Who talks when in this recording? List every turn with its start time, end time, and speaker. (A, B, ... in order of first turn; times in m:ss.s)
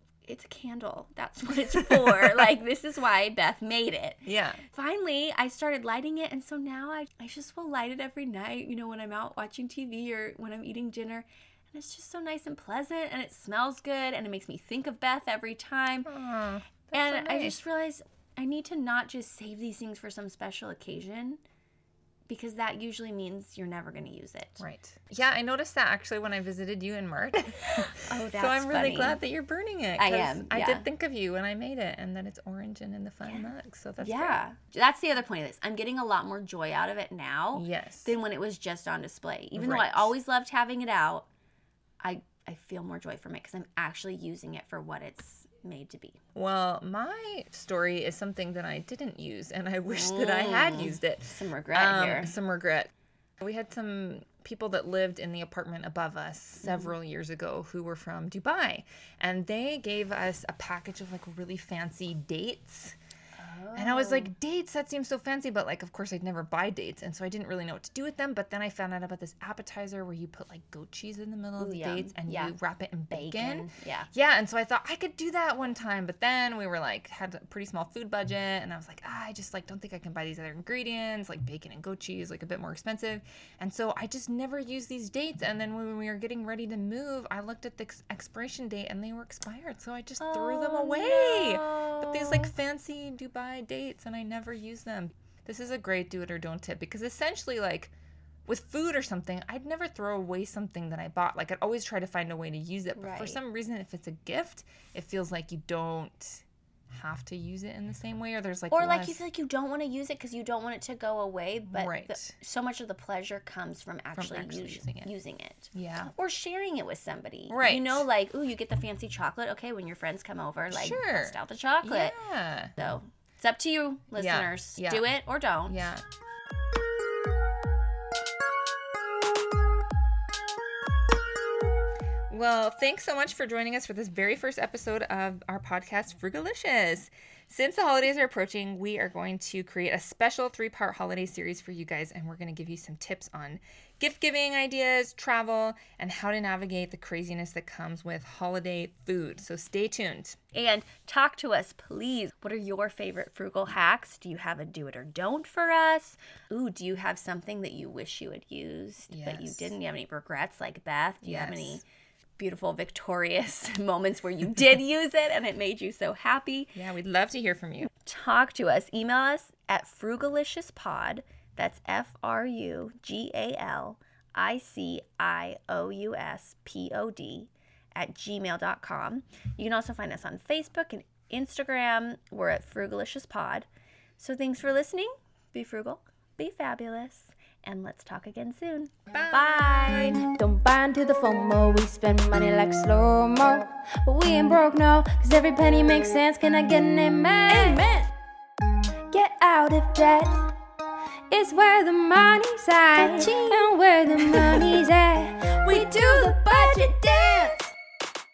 0:00.2-0:16.1 A
0:04.2-0:04.6 B
0:16.0-0:17.6 B
0:16.9-0:21.4 A
0:22.3-0:24.6 A
0:24.6-0:34.4 B
0:27.8-0:29.2 A
0:30.0-0:30.9 A
0:33.2-0:41.3 A
0:37.5-0:38.1 B
0:39.6-0:40.1 B
0:42.0-0:46.2 A
0:46.4-1:03.0 B
0:49.9-0:52.4 A
0:56.6-0:56.9 A
1:03.4-1:04.3 A
1:03.8-1:37.9 B
1:11.6-1:12.6 A
1:13.1-1:14.1 A
1:30.2-1:32.5 A
1:38.5-1:49.2 B
1:43.0-1:43.4 A
1:48.7-2:02.2 A
1:51.7-1:52.3 B
1:54.1-1:55.1 B
1:55.7-1:56.1 B
1:57.5-1:58.1 B
2:00.7-2:02.7 B
2:02.8-2:05.8 A
2:04.1-2:06.0 B
2:12.3-2:30.4 B
2:30.5-2:41.8 A
2:39.1-2:39.8 B
2:41.2-2:41.8 B
2:42.4-2:46.8 A
2:46.8-2:47.9 B
2:47.9-3:03.7 A
3:04.2-3:10.2 A
3:09.1-3:09.8 B
3:10.0-3:18.1 C
3:19.1-3:20.5 C
3:21.3-3:27.7 C
3:25.7-3:26.4 B